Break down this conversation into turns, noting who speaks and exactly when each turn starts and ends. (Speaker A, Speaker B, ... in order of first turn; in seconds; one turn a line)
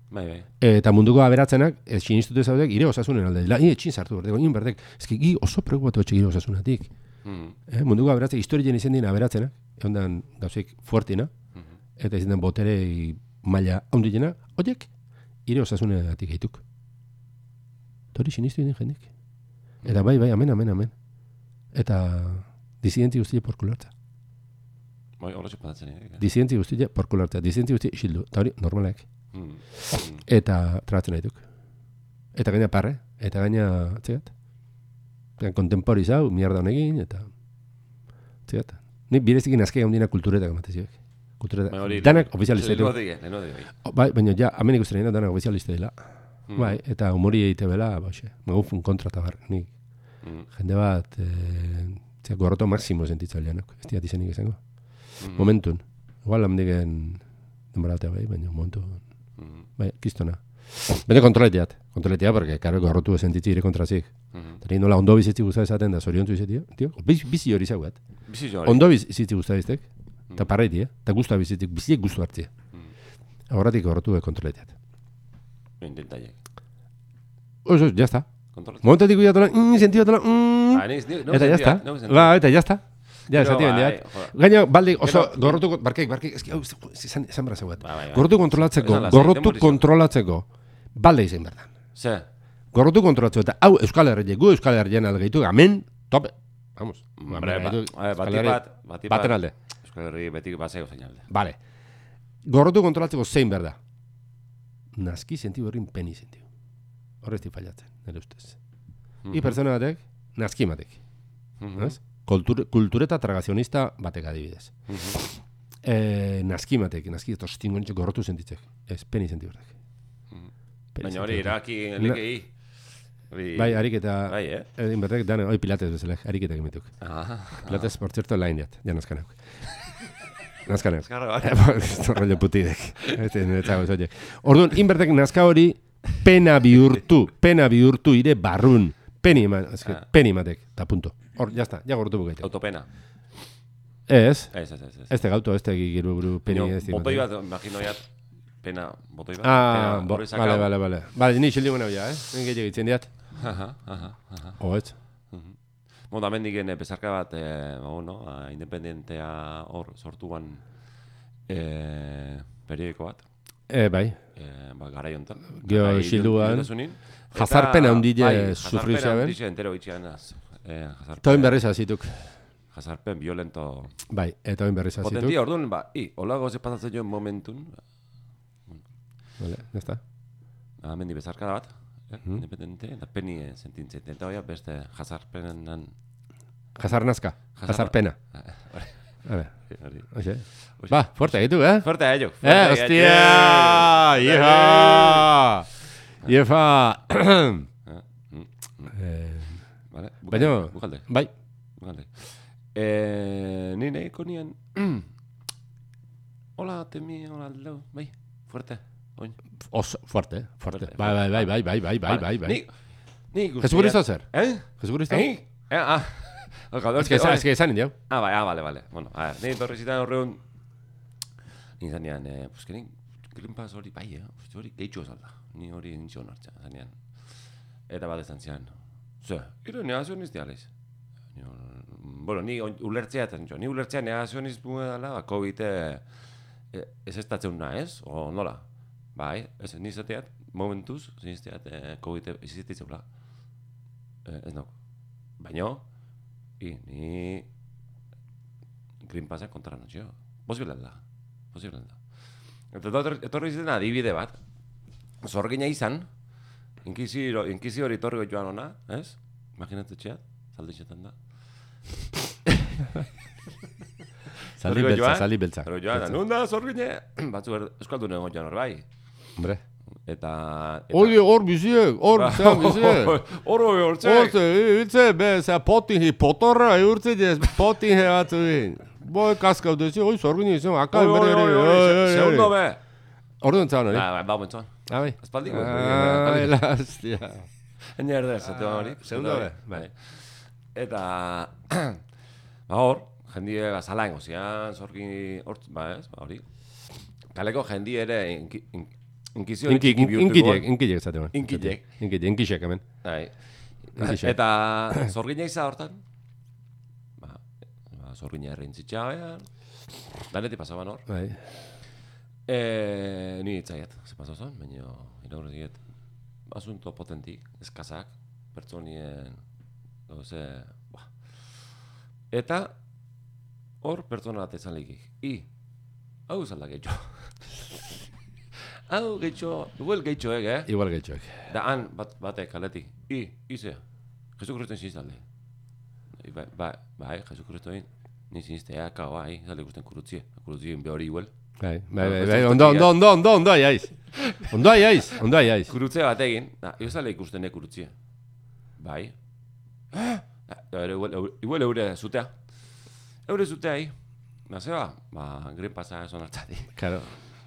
Speaker A: 0.1-0.5
Speaker B: 0.6-6.9
Speaker A: 7.2-7.6
Speaker B: 7.7-11.3
Speaker B: 12.0-14.9
Speaker B: 15.4-16.6
Speaker B: 18.1-19.1
Speaker B: 19.8-20.9
Speaker B: 21.7-23.9
Speaker A: 25.2-26.2
Speaker B: 26.2-29.1
Speaker A: 29.3-30.2
Speaker B: 29.8-31.4
Speaker B: 32.3-34.3
Speaker B: 35.4-37.3
Speaker B: 38.5-43.0
Speaker A: 41.7-43.7
Speaker B: 43.8-45.9
Speaker A: 46.5-46.8
Speaker B: 46.5-49.7
Speaker B: 50.5-54.6
Speaker A: 55.2-55.5
Speaker B: 55.3-57.2
Speaker B: 57.7-59.0
Speaker A: 59.4-59.6
Speaker B: 59.8-68.0
Speaker A: 64.3-64.6
Speaker A: 68.3-68.9
Speaker B: 68.6-72.5
Speaker B: 73.5-74.7
Speaker A: 75.8-76.3
Speaker B: 77.7-78.3
Speaker A: 78.5-78.9
Speaker B: 78.8-91.7
Speaker A: 80.7-82.4
Speaker A: 83.3-84.3
Speaker A: 85.0-85.6
Speaker A: 87.8-89.8
Speaker A: 91.9-92.2
Speaker B: 92.7-99.5
Speaker A: 97.2-101.2
Speaker B: 101.3-101.6
Speaker B: 102.4-103.8
Speaker B: 105.0-106.4
Speaker B: 107.2-108.6
Speaker A: 109.2-109.6
Speaker B: 109.3-111.0
Speaker A: 111.6-112.0
Speaker B: 111.8-119.7
Speaker A: 114.9-115.2
Speaker B: 120.9-122.2
Speaker A: 121.0-122.5
Speaker A: 123.3-124.7
Speaker B: 123.5-126.9
Speaker A: 127.0-127.9
Speaker B: 127.6-129.4
Speaker B: 130.6-142.5
Speaker A: 131.0-132.2
Speaker A: 142.4-142.8
Speaker B: 144.1-144.5
Speaker A: 144.5-145.1
Speaker B: 145.1-147.2
Speaker A: 146.4-148.1
Speaker A: 148.6-150.7
Speaker B: 149.4-153.1
Speaker A: 153.3-154.6
Speaker B: 154.6-154.9
Speaker A: 156.1-160.6
Speaker A: 161.5-163.2
Speaker B: 163.7-164.2
Speaker A: 164.3-171.6
Speaker B: 165.5-166.7
Speaker B: 167.3-169.3
Speaker B: 171.2-172.3
Speaker A: 172.7-173.9
Speaker B: 174.1-175.3
Speaker A: 175.0-177.8
Speaker B: 179.4-180.0
Speaker A: 180.8-185.9
Speaker B: 186.8-188.2
Speaker A: 187.6-188.9
Speaker B: 189.2-189.5
Speaker A: 189.7-190.1
Speaker B: 190.1-191.9
Speaker A: 190.6-195.4
Speaker B: 192.4-195.7
Speaker B: 196.2-197.7
Speaker A: 197.8-198.9
Speaker B: 198.9-199.6
Speaker A: 199.9-201.1
Speaker B: 200.3-201.3
Speaker A: 201.8-205.1
Speaker A: 206.6-209.4
Speaker B: 209.7-212.6
Speaker A: 210.7-212.7
Speaker A: 213.3-217.5
Speaker B: 213.6-214.2
Speaker B: 214.8-215.3
Speaker B: 217.0-217.9
Speaker A: 218.1-220.4
Speaker A: 221.8-227.0
Speaker A: 227.9-230.7
Speaker A: 231.3-236.1
Speaker A: 236.7-238.6
Speaker A: 239.1-243.0
Speaker A: 244.2-244.7
Speaker A: 245.4-245.8
Speaker A: 246.6-247.5
Speaker A: 249.0-251.0
Speaker A: 251.5-252.0
Speaker A: 252.7-254.4
Speaker A: 255.2-256.1
Speaker A: 256.8-261.1
Speaker B: 264.6-266.2
Speaker A: 264.6-268.8
Speaker A: 270.0-271.2
Speaker B: 270.9-273.2
Speaker A: 272.1-274.4
Speaker B: 274.0-282.5
Speaker A: 280.9-282.8
Speaker B: 283.4-284.1
Speaker A: 283.9-286.6
Speaker B: 284.9-287.5
Speaker A: 287.8-292.0
Speaker B: 288.6-289.9
Speaker A: 292.7-296.4
Speaker A: 297.3-300.7
Speaker B: 299.6-302.8
Speaker A: 301.3-301.8
Speaker A: 303.0-303.3
Speaker A: 303.9-306.0
Speaker B: 303.9-304.3
Speaker A: 307.2-309.4
Speaker A: 310.3-311.0
Speaker B: 311.1-311.4
Speaker A: 312.5-315.8
Speaker A: 316.5-319.4
Speaker A: 320.1-321.1
Speaker A: 322.3-322.7
Speaker A: 323.8-325.5
Speaker A: 326.3-327.8
Speaker A: 328.5-330.7
Speaker B: 330.7-331.5
Speaker A: 331.5-333.8
Speaker A: 334.4-335.2
Speaker A: 336.1-341.3
Speaker B: 341.6-345.7
Speaker A: 342.0-342.9
Speaker A: 344.1-344.6
Speaker A: 345.6-347.9
Speaker A: 348.8-349.1
Speaker A: 349.9-352.3
Speaker A: 353.2-353.9
Speaker A: 354.5-356.7
Speaker B: 356.8-357.1